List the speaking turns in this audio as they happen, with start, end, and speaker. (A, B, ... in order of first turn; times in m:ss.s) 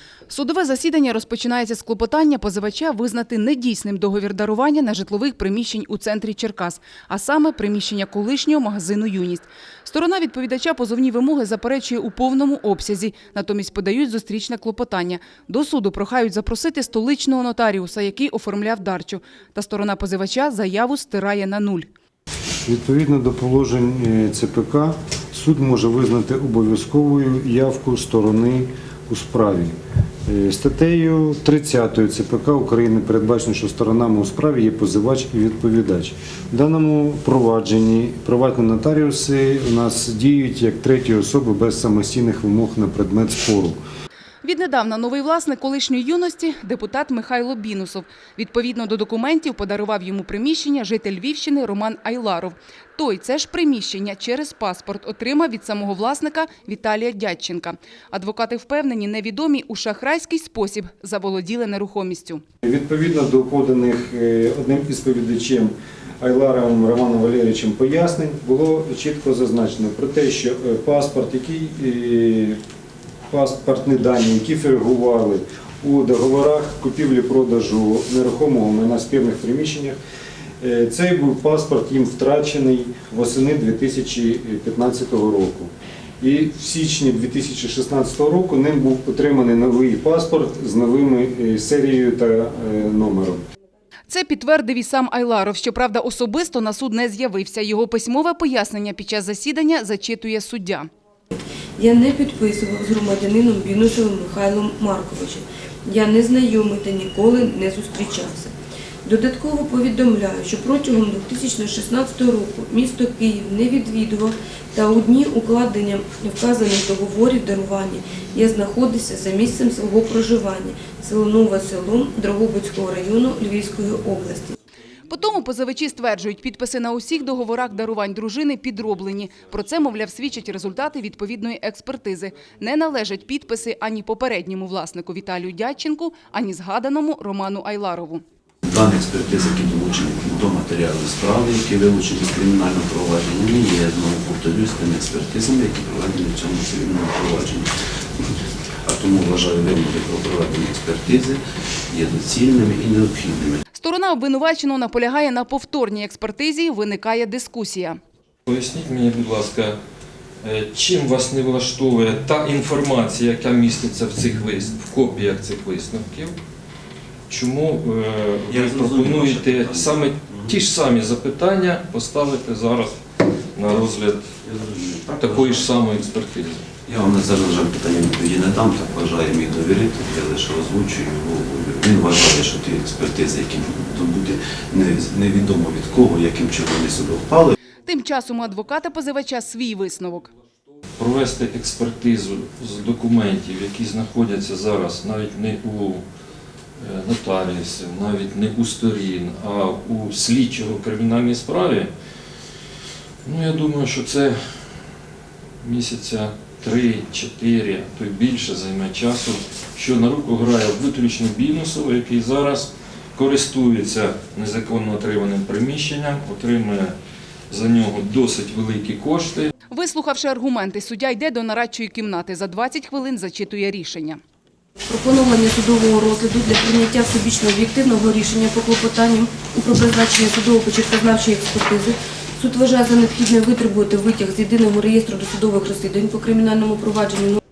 0:00.3-0:21.9 A
0:22.7-0:29.8 B
0:30.3-0:43.8 B
0:44.4-1:02.4 A
1:02.6-1:12.6 B
1:13.3-1:20.0 B
1:20.6-1:33.4 B
1:34.1-1:40.9 A
1:41.8-1:48.5 C
1:49.0-2:04.6 C
2:05.1-2:18.2 A
2:18.7-2:28.3 D
2:28.9-2:33.6 D
2:33.7-2:38.0 A
2:38.5-2:39.8 E
2:40.4-2:46.4 E
2:47.3-2:53.0 E
2:48.5-2:50.6 D
2:53.5-2:54.2 E
2:54.4-2:55.7 D
2:55.2-2:56.7 E
2:56.9-3:07.6 D
3:07.8-3:10.3 A
3:11.0-3:16.0 E
3:16.8-3:21.9 E
3:23.2-3:24.4 E
3:25.6-3:36.9 E
3:37.5-3:39.5 E
3:39.7-3:44.2 A
3:44.9-3:57.4 C